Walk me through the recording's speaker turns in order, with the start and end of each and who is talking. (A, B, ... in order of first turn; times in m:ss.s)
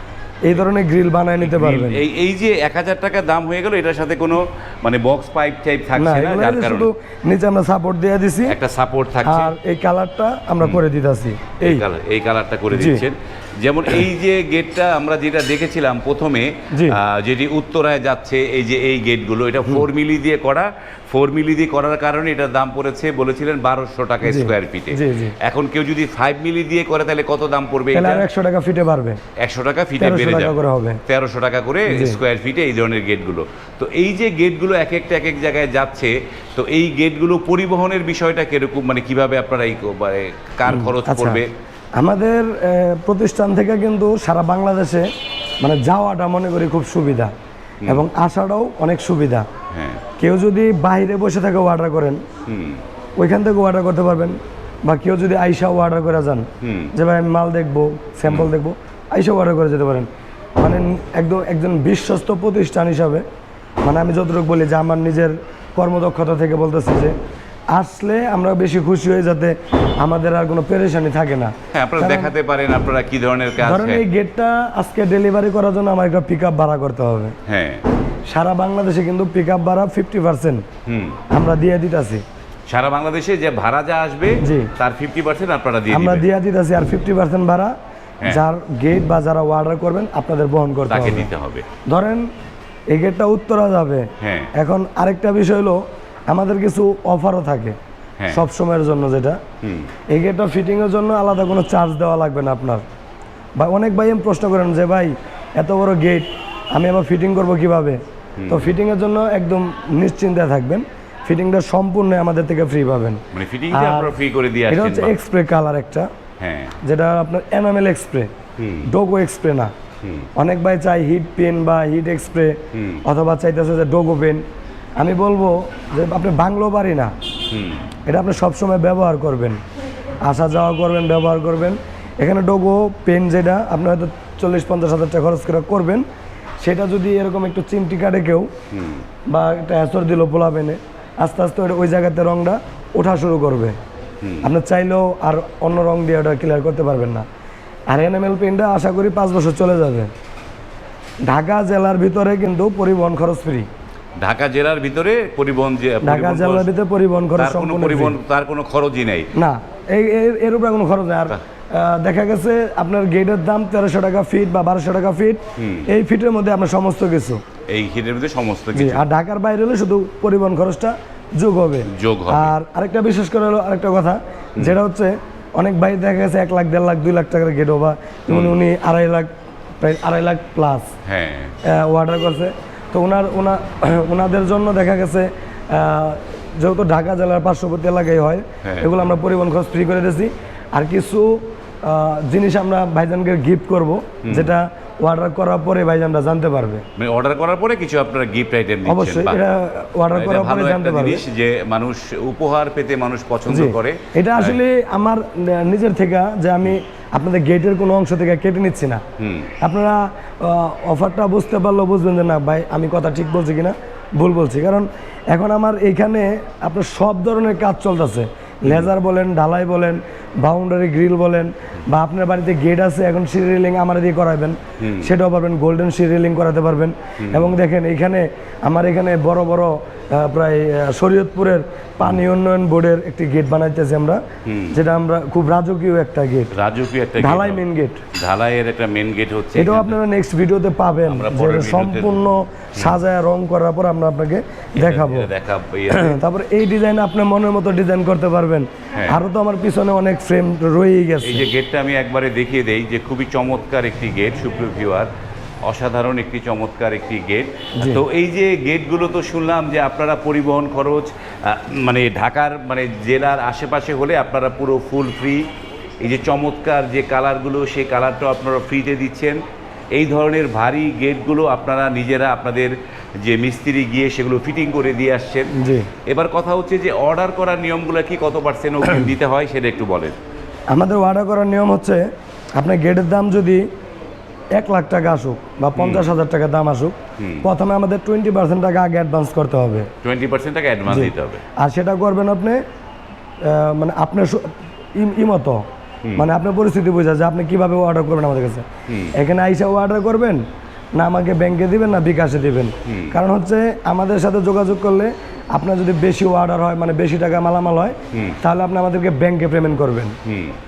0:00.4-0:02.0 A
0:01.4-0:06.9 B
0:06.0-0:08.5 A
0:08.5-0:09.5 B
0:09.2-0:11.8 A
0:11.6-0:28.2 B
0:12.7-0:13.0 A
0:16.7-0:17.0 A
0:24.2-0:25.4 A
0:27.9-0:29.2 A
0:29.4-0:41.5 B
0:30.0-0:31.0 A
0:31.9-0:32.2 A
0:40.7-0:41.4 A
0:42.0-0:45.0 A
0:45.6-0:47.3 A
0:47.9-0:49.5 A
0:49.7-0:50.0 B
0:50.2-0:52.2 A
0:52.5-0:52.8 B
0:53.2-1:03.2 A
0:56.6-0:56.9 B
1:03.8-1:07.1 A
1:07.7-1:12.3 A
1:11.7-1:14.0 B
1:13.6-1:17.3 A
1:17.4-1:17.8 B
1:18.3-1:20.6 A
1:20.9-1:21.2 B
1:21.3-1:22.2 A
1:22.7-1:26.3 B
1:24.4-1:24.7 A
1:25.9-1:27.7 A
1:28.2-1:31.3 A
1:30.9-1:31.6 B
1:31.9-1:32.3 A
1:32.9-1:37.8 A
1:34.2-1:34.5 B
1:38.3-1:39.4 A
1:39.6-1:39.9 B
1:40.1-1:42.8 A
1:43.6-1:54.1 A
1:48.4-1:48.7 B
1:53.3-1:55.1 B
1:54.7-1:56.1 A
1:56.4-1:56.7 B
1:56.8-1:58.3 A
1:58.6-1:58.9 B
1:58.9-1:59.7 A
2:00.0-2:00.3 B
2:00.4-2:04.4 A
2:02.7-2:03.0 B
2:05.0-2:07.1 A
2:07.5-2:07.9 B
2:08.0-2:09.6 A
2:10.2-2:16.0 A
2:16.6-2:18.5 A
2:18.7-2:19.0 B
2:19.3-2:23.8 A
2:24.2-2:24.5 B
2:24.4-2:27.2 A
2:27.9-2:30.1 A
2:31.3-2:33.7 A
2:34.2-2:36.7 B
2:36.0-2:38.2 A
2:37.4-2:39.3 B
2:39.3-2:47.4 A
2:45.6-2:45.9 B
2:47.7-2:49.0 B
2:48.7-2:59.3 A
2:51.8-2:52.5 B
2:59.8-3:00.8 A
3:01.0-3:01.5 B
3:01.6-3:16.8 A
3:08.6-3:09.0 B
3:14.2-3:14.5 B
3:17.0-3:19.4 B
3:18.8-3:21.2 A
3:20.1-3:24.6 B
3:23.5-3:29.0 A
3:29.2-3:29.5 B
3:29.6-3:54.2 A
3:44.8-3:45.1 B
3:47.2-3:47.5 B
3:54.4-3:54.8 B
3:54.7-3:56.5 A
3:56.5-3:57.6 B
3:57.2-3:58.0 A
3:58.2-4:00.0 B
3:59.5-4:05.3 A
4:01.1-4:02.9 B
4:04.8-4:06.2 B
4:05.9-4:11.4 A
4:08.9-4:09.2 B
4:11.2-4:15.1 B
4:15.6-4:25.5 B
4:17.8-4:18.0 A
4:26.0-4:29.4 B
4:29.9-4:35.5 B
4:35.5-4:35.9 A
4:36.0-4:40.2 B
4:40.7-4:42.0 A
4:42.6-4:43.6 A
4:44.6-4:49.9 A
4:45.8-4:46.1 B
4:47.2-4:47.4 B
4:50.0-4:51.4 B
4:50.9-4:52.6 A
4:53.4-4:55.6 A
4:56.1-5:00.4 A
4:58.9-4:59.1 B
5:01.0-5:10.2 A
5:02.8-5:03.1 B
5:08.1-5:08.4 B
5:10.2-5:10.6 B